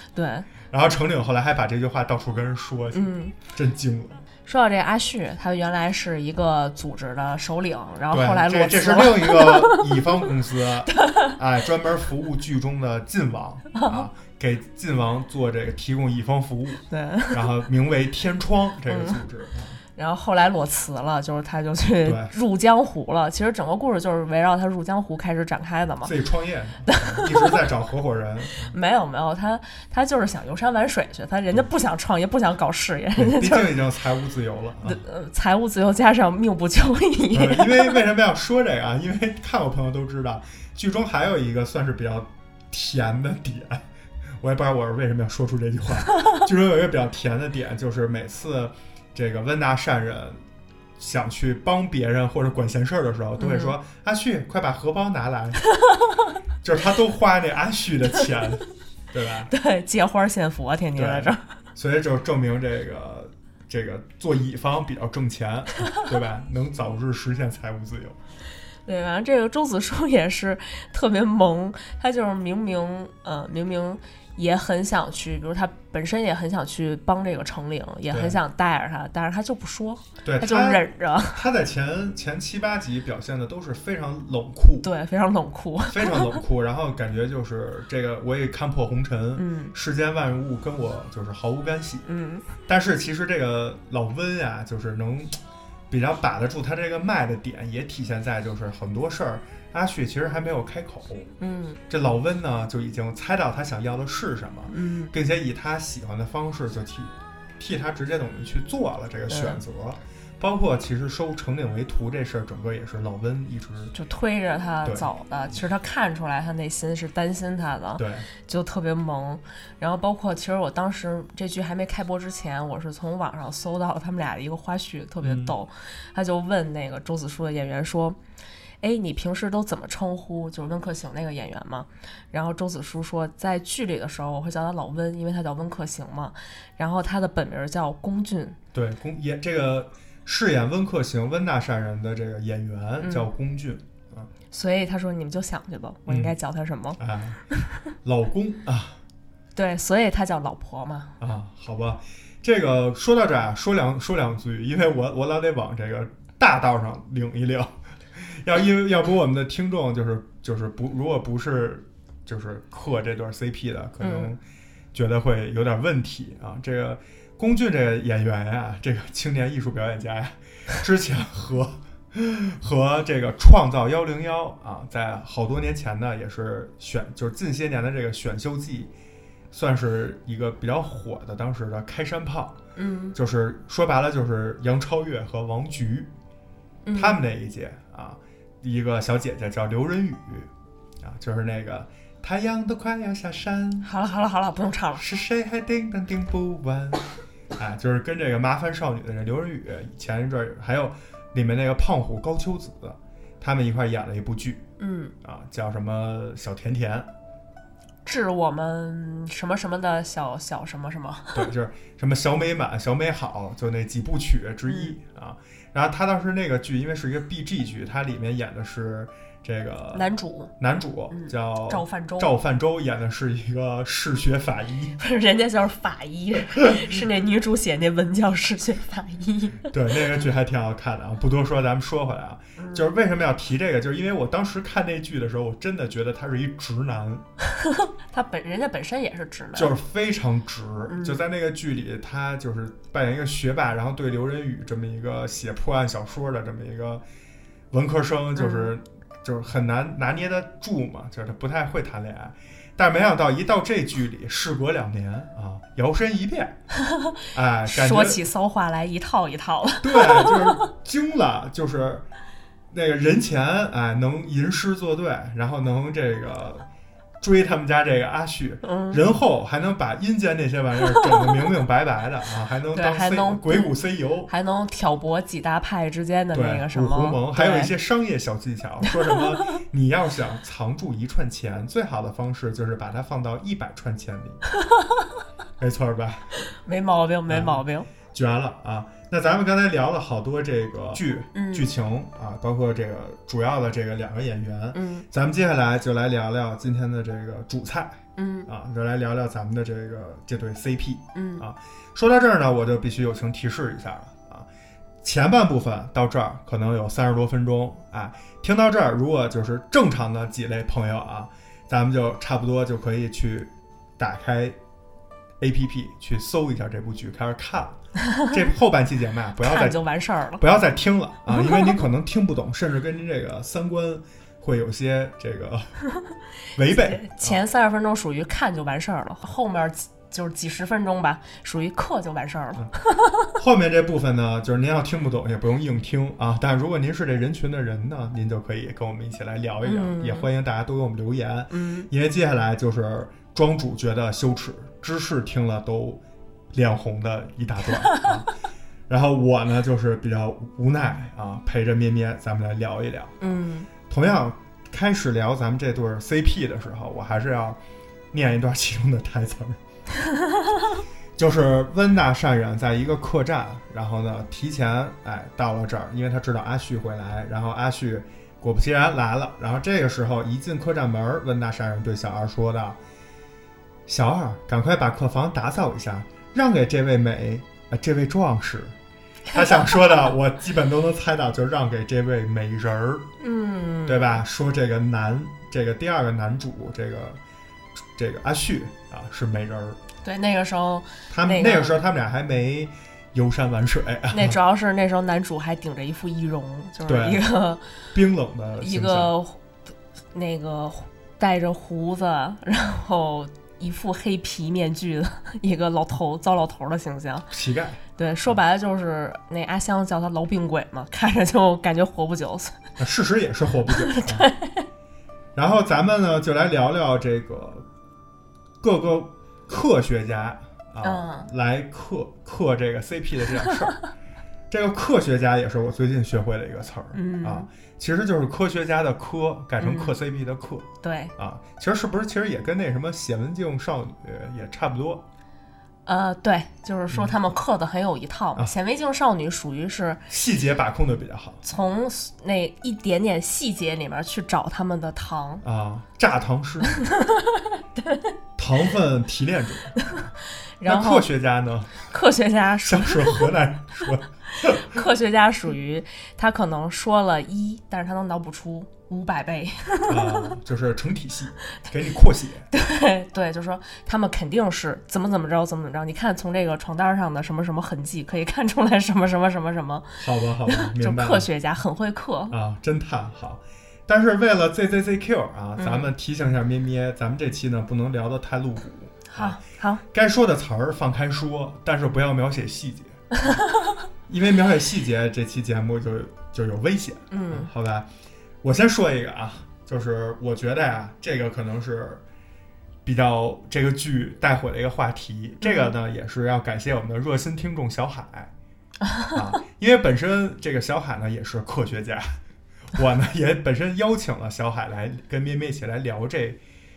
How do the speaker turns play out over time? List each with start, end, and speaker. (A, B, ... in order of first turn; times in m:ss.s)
0:00.1-0:00.5 A
0:00.7-0:04.2 B
0:02.9-0:03.4 A
0:04.4-0:10.1 A
0:08.1-0:19.8 B
0:10.9-0:11.3 A
0:13.7-0:14.0 A
0:16.9-0:17.5 A
0:18.9-0:19.2 A
0:20.0-0:26.1 A
0:22.0-0:22.3 B
0:26.0-0:28.7 B
0:26.8-0:27.6 A
0:28.7-0:33.8 A
0:33.2-0:35.0 B
0:34.8-0:38.0 A
0:37.3-0:43.8 B
0:44.4-0:50.4 B
0:51.0-0:55.6 B
0:53.4-0:53.8 A
0:56.6-0:59.5 B
0:59.5-1:01.4 A
1:00.9-1:08.2 B
1:08.8-1:21.4 A
1:18.1-1:18.4 B
1:20.2-1:24.9 B
1:24.8-1:26.4 A
1:25.9-1:32.0 B
1:29.4-1:29.7 A
1:32.0-1:32.4 A
1:32.7-1:35.4 B
1:35.9-1:41.3 B
1:41.4-1:41.8 A
1:41.9-1:53.9 B
1:44.7-1:45.1 A
1:49.3-1:49.6 A
1:53.9-2:08.2 A
1:58.0-1:58.3 B
2:05.2-2:05.5 B
2:08.8-2:18.6 A
2:18.7-2:24.3 B
2:23.0-2:23.3 A
2:24.5-2:27.0 A
2:26.1-2:26.3 B
2:27.0-2:27.4 B
2:28.0-2:29.0 B
2:29.5-2:31.1 A
2:31.2-2:44.4 B
2:44.0-2:44.3 A
2:44.9-2:58.9 B
2:59.5-3:02.6 B
3:02.8-3:03.2 A
3:03.1-3:06.1 B
3:06.8-3:07.2 A
3:06.9-3:10.5 B
3:11.0-3:13.9 B
3:13.8-3:15.0 A
3:15.0-3:24.6 B
3:24.8-3:25.1 A
3:25.2-3:27.1 B
3:28.0-3:31.5 A
3:31.3-3:40.1 B
3:34.7-3:34.9 A
3:39.9-3:40.5 A
3:40.6-3:44.9 B
3:41.1-3:42.3 A
3:45.0-3:49.7 A
3:49.7-3:57.2 B
3:52.6-3:52.9 A
3:57.8-3:59.7 A
3:59.5-4:07.0 B
4:00.9-4:01.2 A
4:07.7-4:16.6 B
4:08.4-4:08.7 A
4:16.8-4:17.1 A
4:17.3-4:18.2 B
4:17.6-4:20.6 A
4:19.8-4:22.0 B
4:22.7-4:26.7 B
4:27.2-4:34.3 B
4:28.6-4:29.0 A
4:32.7-4:33.8 A
4:34.3-4:37.7 A
4:36.3-4:44.4 B
4:38.9-4:39.2 A
4:44.6-4:45.0 A
4:45.6-4:46.3 B
4:46.5-4:47.9 A
4:47.3-5:04.5 B
4:51.3-4:51.7 A
4:54.7-4:55.0 A
4:58.2-4:58.5 A
5:01.1-5:01.4 A
5:05.0-5:14.6 B
5:15.4-5:19.8 B
5:19.4-5:20.4 A
5:20.4-5:25.8 B
5:21.3-5:21.7 A
5:26.5-5:27.4 B
5:26.7-5:33.3 A
5:33.4-5:46.0 B
5:39.6-5:40.3 A
5:41.5-5:41.9 A
5:46.5-5:48.3 B
5:47.8-5:48.2 A
5:48.9-5:53.2 B
5:53.2-5:53.7 A
5:53.9-5:57.6 B
5:58.1-5:59.6 B
6:01.2-6:12.8 B
6:13.9-6:18.7 B
6:19.3-6:23.1 B
6:23.2-6:24.2 A
6:23.8-6:27.2 B
6:28.0-6:29.8 B
6:30.0-6:31.8 A
6:31.1-6:34.4 B
6:34.1-6:37.6 A
6:36.8-6:37.2 B
6:37.9-6:39.1 B
6:38.6-6:39.4 A
6:40.1-6:47.3 A
6:47.3-6:47.8 B
6:48.0-6:52.5 A
6:52.8-6:54.3 B
6:53.7-6:54.6 A
6:55.3-6:57.6 B
6:58.6-7:03.8 B
7:00.8-7:01.3 A
7:04.5-7:15.0 B
7:06.9-7:07.5 A
7:09.6-7:10.0 A
7:10.8-7:11.1 A
7:15.8-7:20.0 A
7:16.9-7:17.2 B
7:20.1-7:21.4 B
7:21.4-7:25.4 A
7:25.4-7:26.7 B
7:26.8-7:28.0 A
7:28.4-7:29.7 B
7:30.6-7:31.1 A
7:30.6-7:31.9 B
7:31.9-7:33.3 A
7:32.6-7:34.8 B
7:34.6-7:40.3 A
7:39.9-7:42.4 B
7:42.5-7:52.4 A
7:50.0-7:51.3 B
7:52.3-7:59.4 B
7:55.6-7:55.9 A
7:59.1-7:59.8 A
7:59.9-8:03.4 B
8:04.1-8:07.9 B
8:07.1-8:07.5 A
8:08.4-8:12.0 B
8:12.8-8:18.3 B
8:15.4-8:15.7 A
8:18.8-8:19.2 A
8:19.1-8:22.2 B
8:22.7-8:26.4 B